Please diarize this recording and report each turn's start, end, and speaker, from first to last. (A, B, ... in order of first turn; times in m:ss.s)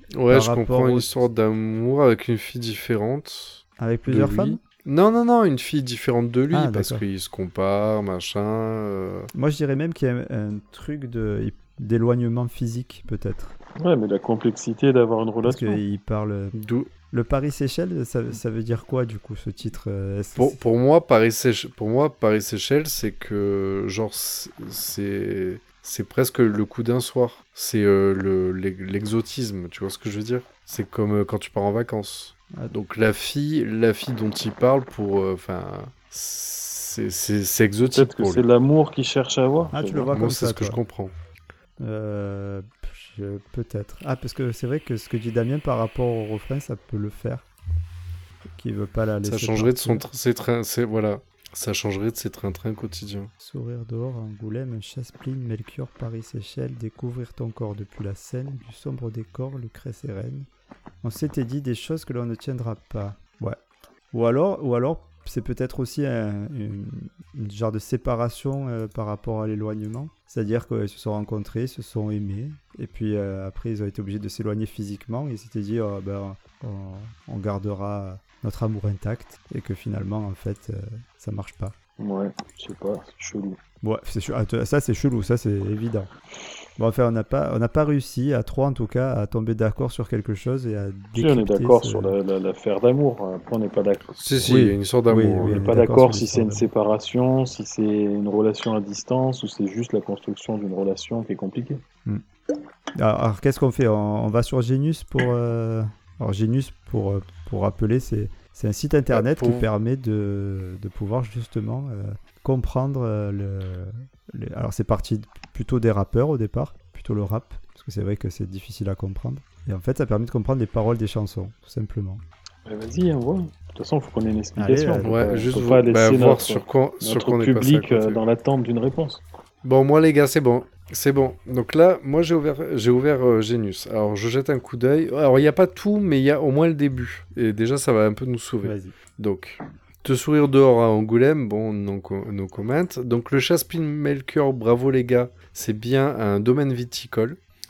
0:00.1-0:09.3 A
0:00.3-0:01.2 B
0:03.8-0:04.6 B
0:06.5-0:07.0 B
0:09.3-0:13.6 B
0:13.8-0:15.8 C
0:15.4-0:16.6 B
0:16.5-0:16.9 A
0:17.1-0:20.6 B
0:20.4-0:38.4 A
0:37.9-0:40.1 C
0:39.7-0:40.8 B
0:40.1-0:41.2 A
0:41.8-0:47.5 B
0:48.5-0:50.0 B
0:49.2-0:53.3 A
0:53.4-1:00.5 B
1:01.0-1:03.6 B
1:04.1-1:21.8 B
1:22.0-1:23.6 C
1:23.8-1:26.1 B
1:26.8-1:32.2 B
1:31.2-1:34.2 C
1:34.2-1:35.7 A
1:34.4-1:36.7 B
1:35.4-1:41.8 C
1:43.0-2:02.2 B
1:49.1-1:49.7 A
2:02.7-2:09.2 C
2:04.6-2:05.2 B
2:05.0-2:08.2 A
2:09.6-2:27.4 A
2:18.6-2:19.0 B